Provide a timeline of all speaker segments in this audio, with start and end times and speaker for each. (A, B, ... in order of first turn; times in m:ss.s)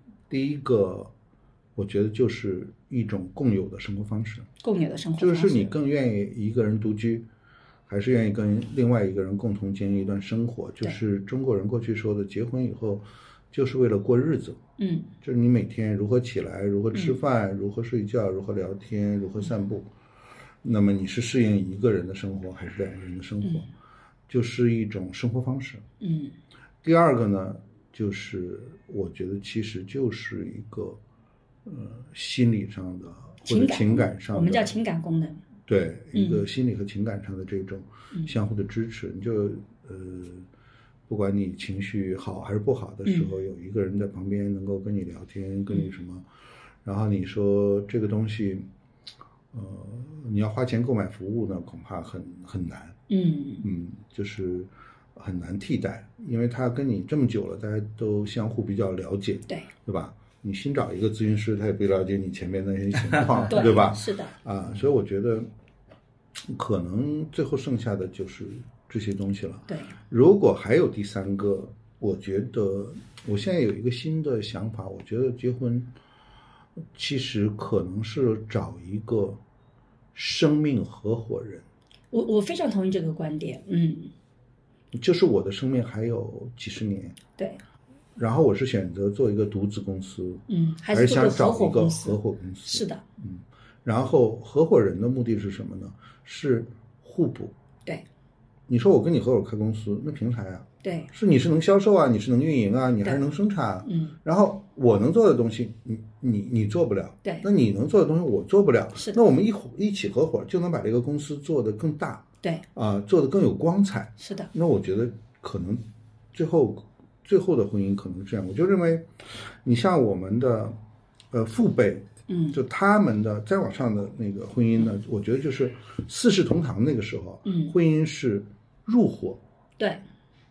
0:00.3-0:01.1 A
0:01.8-0:04.5 A
0:04.6-0:05.7 B
0:05.2-0:07.3 A
0:07.9-0:14.6 A
0:14.8-0:15.1 B
0:15.2-0:19.9 A
0:20.6-0:23.6 A
0:24.3-0:25.8 A
0:26.0-0:26.3 B
0:26.8-0:31.0 A
0:31.6-0:34.7 A
0:33.4-0:35.4 B
0:35.7-0:40.5 A
0:36.1-0:36.4 B
0:41.1-0:46.2 A
0:43.0-0:43.3 B
0:46.8-0:48.7 A
0:49.5-0:52.9 A
0:53.1-0:53.6 B
0:53.6-1:05.5 A
1:03.5-1:04.3 B
1:06.4-1:15.9 A
1:16.9-1:19.4 A
1:20.1-1:21.6 A
1:22.1-1:24.1 B
1:24.9-1:27.2 A
1:28.2-1:37.5 A
1:30.5-1:33.0 B
1:38.7-1:52.2 A
1:40.8-1:41.1 B
1:43.8-1:44.1 B
1:52.7-2:00.7 A
1:54.2-1:54.5 B
2:01.3-2:09.4 A
2:02.3-2:02.6 B
2:07.4-2:07.7 B